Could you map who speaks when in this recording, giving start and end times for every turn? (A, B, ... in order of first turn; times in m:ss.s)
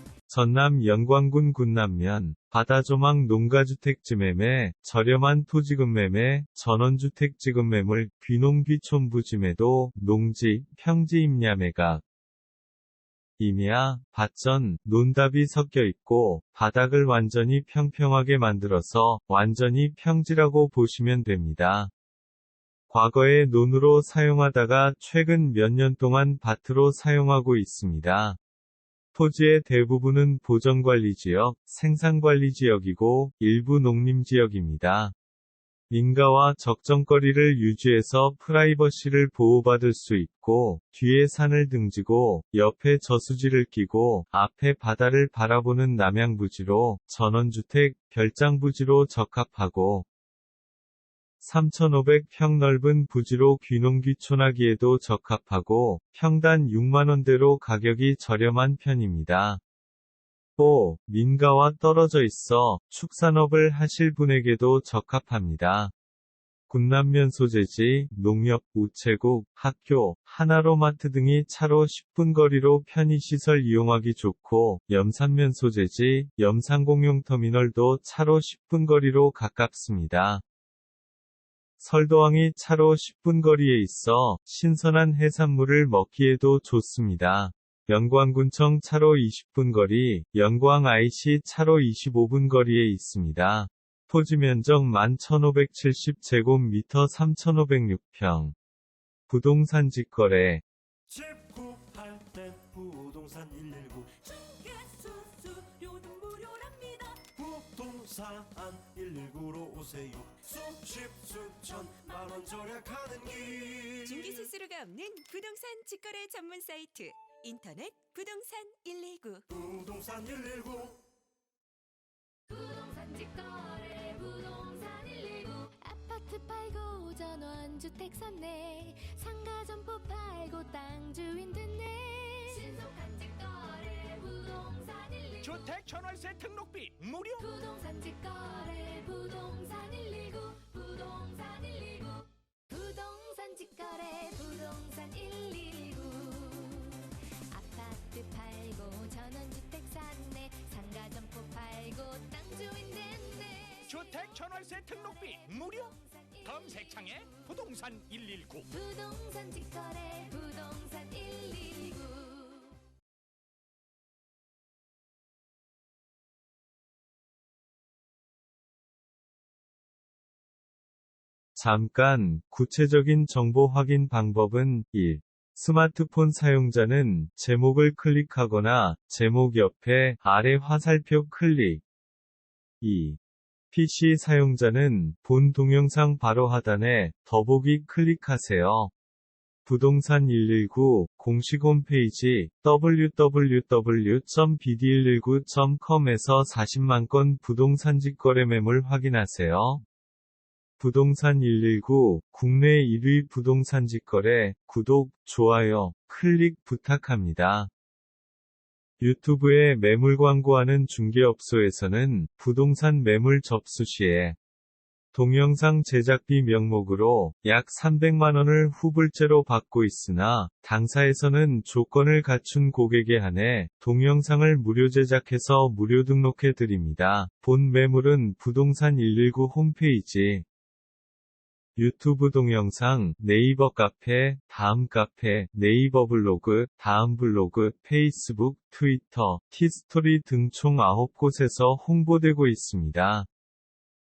0:00.3-0:12.0 A
0:13.4-0:21.9 A
0:22.9-0:28.4 A
0:29.1-0:35.1 A
0:35.9-0:50.1 A
0:51.4-0:59.6 A
1:00.6-1:05.9 A
1:06.7-1:20.4 A
1:21.8-1:38.6 A
1:39.3-1:40.6 A
1:41.1-1:44.4 B
1:44.3-1:47.2 C
1:47.2-1:54.5 B
1:54.0-1:59.5 C
1:59.5-2:01.0 B
2:02.5-2:15.7 D
2:15.4-2:17.4 E
2:17.4-2:37.6 D
2:33.9-2:38.7 E
2:38.7-2:42.7 D
2:51.6-3:01.8 A
3:02.8-3:03.2 A
3:03.7-3:08.9 A
3:09.6-3:19.8 A
3:20.8-3:27.7 A
3:29.0-3:34.4 A
3:35.1-3:50.4 A
3:51.8-4:03.3 A